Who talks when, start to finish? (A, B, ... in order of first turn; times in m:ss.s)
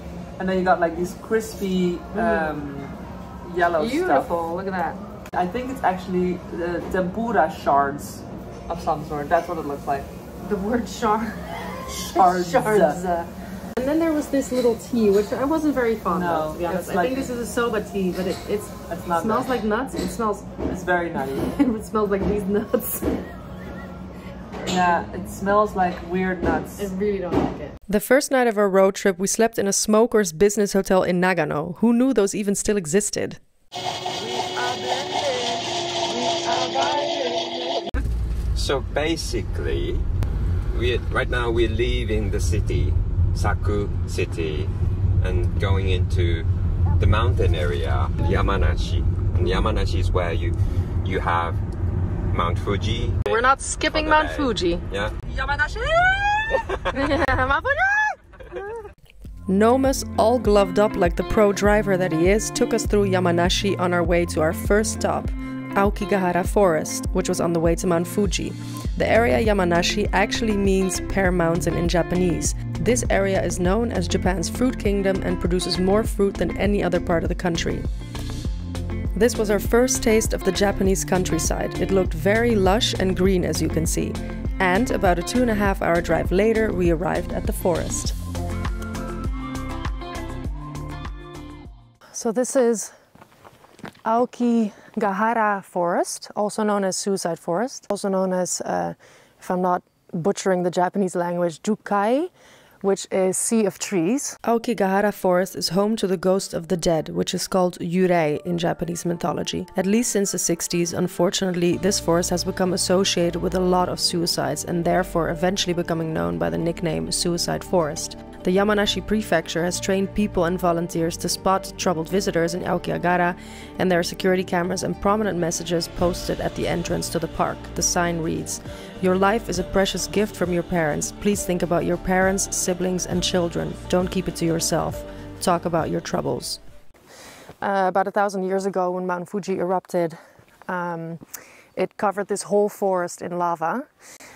0:00.4-0:04.3 A
0:02.1-0:02.7 B
0:03.8-0:05.0 B
0:05.3-0:10.1 A
0:10.4-0:11.5 B
0:11.9-0:13.0 A
0:12.1-0:20.5 B
0:16.1-0:17.3 A
0:18.9-0:19.5 A
0:20.6-0:21.5 A
0:21.4-0:23.1 B
0:24.6-0:25.0 B
0:24.6-0:26.9 A
0:26.8-0:33.4 B
0:34.2-0:35.5 B
0:34.4-0:35.1 A
0:36.0-0:37.6 B
0:36.4-0:37.7 A
0:38.5-0:40.0 C
0:40.7-0:51.6 C
0:52.3-0:55.1 C
0:53.3-0:54.8 B
0:55.3-0:56.7 A
0:56.9-0:58.2 B
0:59.5-1:17.8 B
1:19.1-1:28.1 B
1:32.1-1:32.9 B
1:34.0-1:42.3 B
1:42.8-2:16.6 B
2:17.6-2:20.2 B
2:20.7-2:21.2 B
2:21.8-2:23.9 B